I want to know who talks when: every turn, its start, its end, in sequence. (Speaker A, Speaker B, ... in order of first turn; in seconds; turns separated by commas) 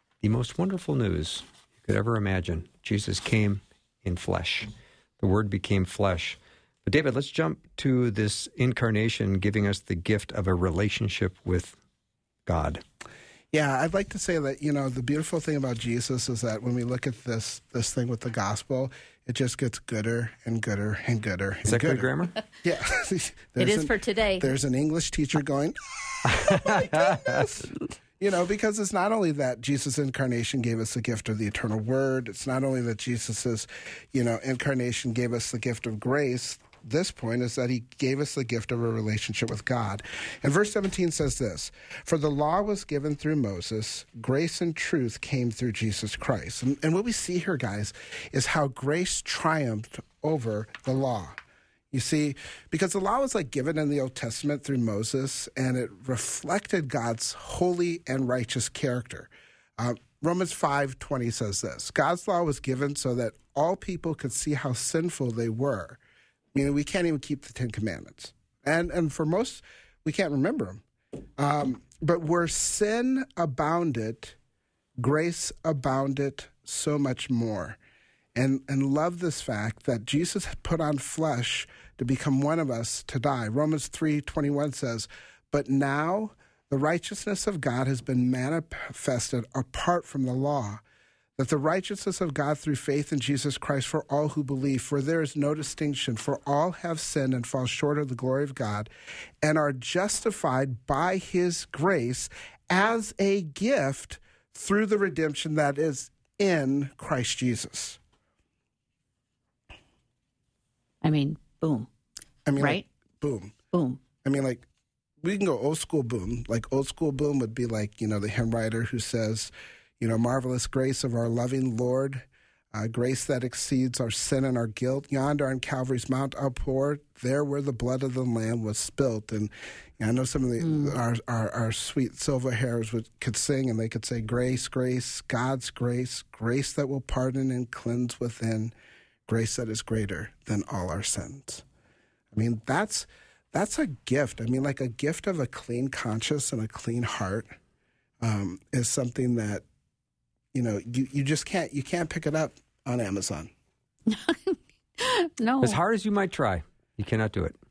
Speaker A: 0.2-11.8, Speaker A: 12.5-12.8, Speaker B: 13.5-51.4, Speaker A: 21.6-22.4, Speaker C: 23.6-24.5, Speaker A: 26.2-27.5, Speaker B: 51.9-66.0, Speaker B: 66.5-70.8, Speaker B: 71.4-74.4, Speaker B: 75.0-77.8, Speaker B: 78.3-90.8, Speaker B: 91.4-98.9, Speaker B: 99.4-108.0, Speaker C: 111.0-111.9, Speaker B: 112.5-113.5, Speaker C: 112.6-112.9, Speaker C: 113.7-114.0, Speaker B: 114.2-114.7, Speaker B: 115.2-138.7, Speaker C: 130.6-131.0, Speaker B: 139.3-141.6, Speaker B: 142.3-147.6, Speaker B: 148.2-149.6, Speaker B: 150.5-153.5, Speaker C: 154.1-155.8, Speaker A: 155.6-157.6